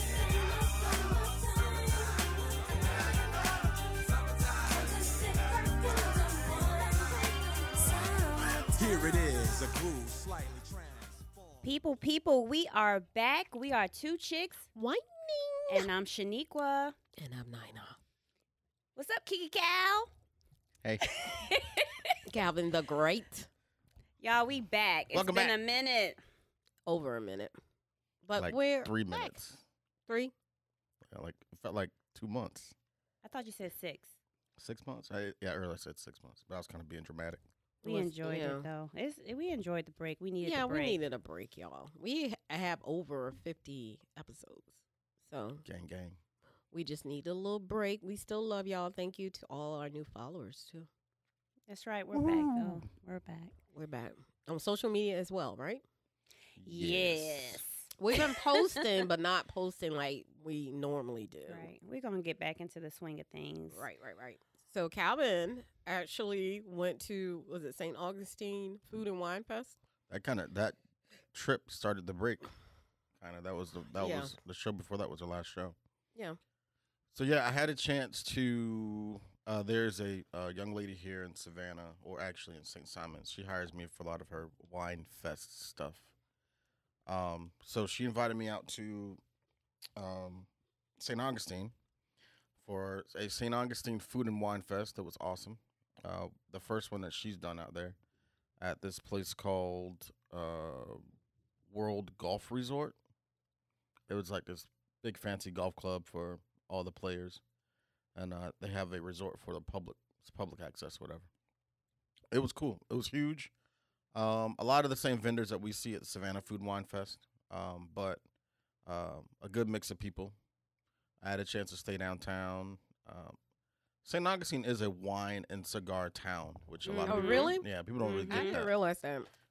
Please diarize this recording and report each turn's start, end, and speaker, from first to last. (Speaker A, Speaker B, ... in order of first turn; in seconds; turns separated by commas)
Speaker A: 7.8-8.6, Speaker B: 8.7-11.7, Speaker C: 11.6-14.7, Speaker A: 14.8-15.9, Speaker C: 15.7-16.9, Speaker A: 17.2-18.0, Speaker C: 19.0-20.1, Speaker C: 21.0-22.2, Speaker A: 22.3-23.5, Speaker C: 24.2-26.2, Speaker D: 25.1-25.6, Speaker A: 26.9-27.6, Speaker A: 28.2-29.4, Speaker D: 28.4-29.6, Speaker A: 30.1-30.3, Speaker D: 31.1-32.8, Speaker C: 33.2-34.1, Speaker D: 34.6-37.4, Speaker A: 37.8-38.7, Speaker C: 37.8-41.0, Speaker A: 40.4-45.6, Speaker D: 45.6-46.2, Speaker A: 46.7-50.9, Speaker C: 51.7-53.5, Speaker D: 52.1-52.9, Speaker A: 53.7-55.8, Speaker D: 56.6-57.6, Speaker C: 56.6-58.8, Speaker A: 58.0-61.7, Speaker C: 61.5-63.9, Speaker A: 63.7-69.8, Speaker D: 70.1-70.8, Speaker D: 71.3-72.5, Speaker D: 73.2-75.8, Speaker A: 74.0-74.3, Speaker D: 77.1-86.1, Speaker D: 87.1-89.2, Speaker D: 90.0-90.5, Speaker D: 91.0-91.7, Speaker D: 92.6-98.0, Speaker D: 98.6-101.0, Speaker D: 101.7-103.0, Speaker D: 104.1-107.4, Speaker D: 108.2-111.3, Speaker D: 112.3-113.5, Speaker D: 114.1-118.2, Speaker D: 118.9-120.4, Speaker D: 121.2-123.4, Speaker D: 124.0-128.8, Speaker C: 126.8-128.6, Speaker A: 127.1-127.7, Speaker A: 128.3-129.3